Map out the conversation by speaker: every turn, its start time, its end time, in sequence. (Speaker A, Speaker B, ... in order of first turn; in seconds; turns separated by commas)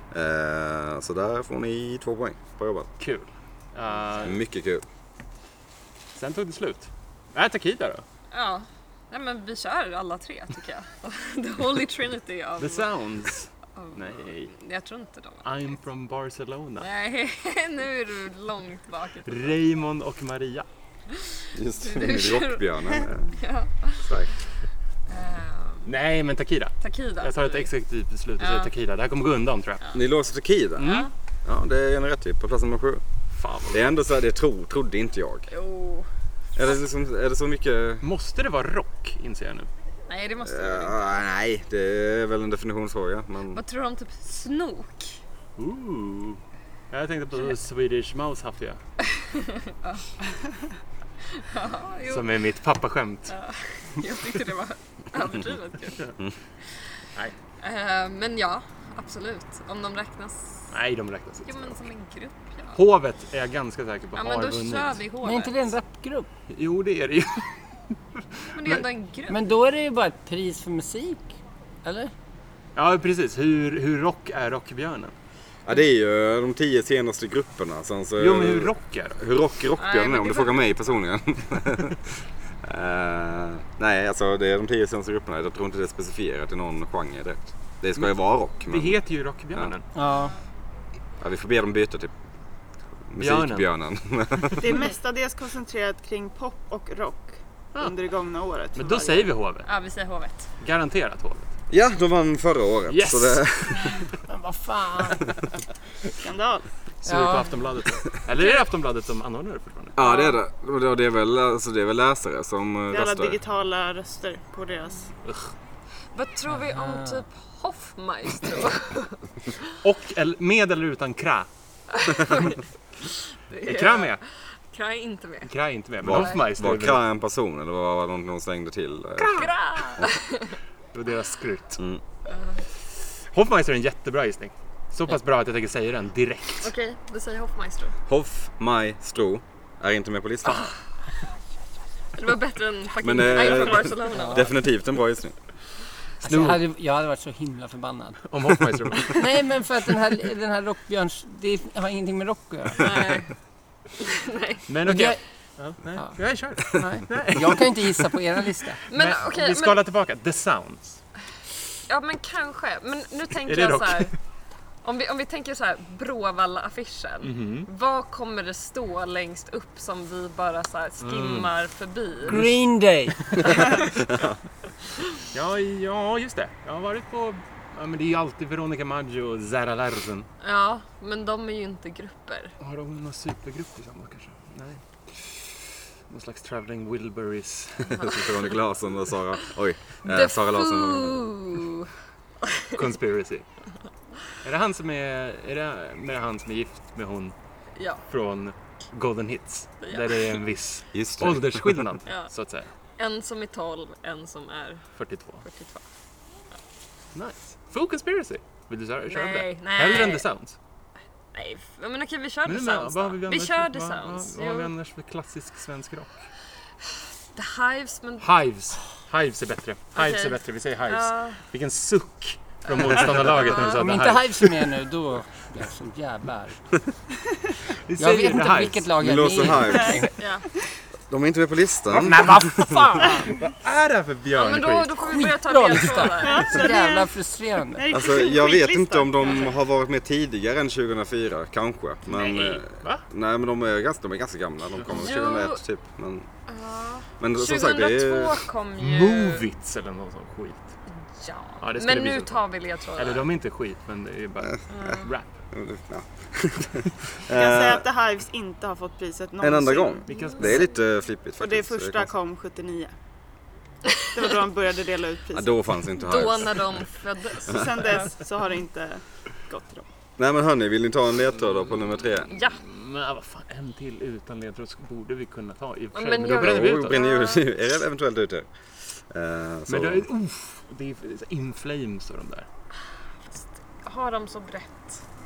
Speaker A: 0.1-2.9, Speaker B: 3.0-4.4, Speaker C: 4.0-4.3, Speaker A: 4.2-4.8, Speaker B: 6.2-8.0, Speaker C: 8.3-12.9, Speaker B: 12.6-14.6, Speaker C: 13.8-15.5, Speaker B: 15.4-16.9, Speaker C: 16.8-19.6, Speaker B: 19.3-20.7, Speaker C: 21.1-24.1, Speaker A: 21.5-23.3, Speaker A: 24.0-24.3, Speaker C: 25.1-25.9, Speaker B: 25.9-29.8, Speaker C: 26.8-27.7, Speaker C: 28.4-28.7, Speaker A: 29.9-30.9, Speaker B: 30.8-31.1, Speaker C: 30.8-31.1, Speaker A: 31.4-33.0, Speaker B: 33.3-33.9, Speaker A: 33.7-35.5, Speaker C: 35.5-36.1, Speaker A: 36.6-38.0, Speaker B: 38.0-39.7, Speaker C: 40.1-41.2, Speaker A: 40.5-43.6, Speaker C: 43.5-45.2, Speaker B: 45.6-48.8, Speaker C: 49.1-50.1, Speaker C: 51.3-52.3, Speaker B: 52.1-53.3, Speaker C: 53.3-56.1, Speaker C: 57.6-60.7, Speaker B: 60.7-61.9, Speaker C: 61.5-62.8, Speaker B: 62.7-65.0, Speaker C: 64.2-65.7, Speaker D: 65.2-66.3, Speaker B: 66.5-68.9, Speaker C: 68.5-69.4, Speaker D: 69.3-72.1, Speaker B: 72.8-75.2, Speaker A: 75.7-89.0, Speaker B: 78.2-79.2, Speaker C: 79.8-80.7, Speaker B: 88.7-89.9, Speaker D: 90.0-90.3, Speaker C: 90.1-90.3, Speaker A: 91.2-92.1, Speaker A: 93.1-94.8, Speaker B: 93.2-93.7, Speaker E: 94.5-99.3, Speaker B: 98.8-99.7, Speaker C: 99.6-100.5, Speaker B: 100.6-101.5, Speaker A: 101.7-104.0, Speaker B: 102.9-103.9, Speaker D: 104.3-105.3, Speaker E: 106.2-106.7, Speaker B: 107.0-110.0, Speaker D: 107.0-107.5, Speaker C: 108.4-108.7, Speaker A: 110.0-113.4, Speaker C: 110.0-110.4, Speaker E: 112.9-115.1, Speaker B: 115.2-115.5, Speaker C: 116.1-119.7, Speaker D: 116.5-117.2, Speaker B: 119.8-121.5, Speaker C: 121.9-125.5, Speaker B: 123.6-124.2, Speaker B: 125.4-127.0, Speaker A: 126.0-130.1, Speaker C: 126.0-126.4, Speaker C: 129.2-130.6, Speaker B: 130.9-131.8, Speaker C: 132.3-132.6, Speaker B: 133.3-136.7, Speaker C: 136.6-137.9, Speaker A: 138.1-140.7, Speaker C: 142.1-144.5, Speaker A: 143.0-145.4, Speaker D: 144.1-144.5, Speaker B: 146.2-146.6, Speaker D: 146.2-148.3, Speaker B: 148.3-149.3, Speaker D: 149.1-153.2, Speaker C: 152.8-153.3, Speaker C: 154.0-155.1, Speaker B: 154.7-158.1, Speaker D: 154.9-155.2, Speaker D: 156.0-158.8, Speaker C: 158.9-159.8, Speaker B: 158.9-161.0, Speaker C: 161.9-164.1, Speaker B: 163.4-164.2, Speaker C: 164.8-172.5, Speaker B: 167.2-167.7, Speaker B: 171.0-171.5, Speaker D: 172.3-173.6, Speaker C: 173.5-173.8, Speaker B: 175.3-180.3, Speaker C: 180.4-182.6, Speaker B: 182.6-188.3, Speaker C: 187.9-188.3, Speaker A: 188.0-191.4, Speaker C: 190.1-191.9, Speaker C: 192.4-192.8, Speaker B: 192.7-193.5, Speaker B: 194.4-197.3, Speaker C: 197.8-198.0, Speaker B: 198.1-202.7, Speaker C: 199.8-200.3, Speaker A: 200.9-201.8, Speaker C: 202.1-202.3, Speaker C: 203.0-204.8, Speaker B: 205.0-205.4, Speaker C: 205.4-205.8, Speaker B: 207.1-210.6, Speaker C: 209.1-210.3, Speaker C: 211.3-214.7, Speaker B: 212.4-216.3, Speaker C: 217.3-218.3, Speaker B: 218.2-224.5, Speaker C: 219.9-221.4, Speaker C: 222.7-224.0, Speaker D: 223.6-226.6, Speaker B: 227.8-228.9, Speaker D: 228.0-230.1, Speaker A: 229.0-230.0, Speaker E: 229.7-230.0, Speaker C: 230.2-230.5, Speaker A: 231.1-232.7, Speaker B: 231.9-235.2, Speaker D: 231.9-233.3, Speaker C: 234.3-236.8, Speaker D: 235.1-237.8, Speaker E: 236.2-237.1, Speaker E: 237.7-239.5, Speaker A: 237.9-246.3, Speaker B: 242.1-243.1, Speaker B: 244.8-245.1, Speaker C: 244.9-245.6, Speaker C: 246.5-249.4, Speaker A: 247.2-248.4, Speaker B: 248.8-250.7, Speaker C: 251.1-253.3, Speaker B: 251.6-252.4, Speaker B: 252.9-255.3, Speaker C: 254.7-255.1, Speaker A: 255.5-257.9, Speaker E: 257.3-260.1, Speaker A: 259.4-262.1, Speaker B: 260.1-260.7, Speaker C: 260.1-260.7, Speaker E: 261.4-262.9, Speaker E: 264.1-265.8, Speaker A: 265.3-266.9, Speaker C: 266.0-268.1, Speaker E: 267.5-269.9, Speaker A: 270.2-272.4, Speaker C: 272.2-272.6, Speaker B: 272.6-277.0, Speaker C: 275.9-277.5, Speaker A: 276.3-278.5, Speaker A: 279.1-280.1, Speaker B: 279.7-282.5, Speaker C: 283.3-285.0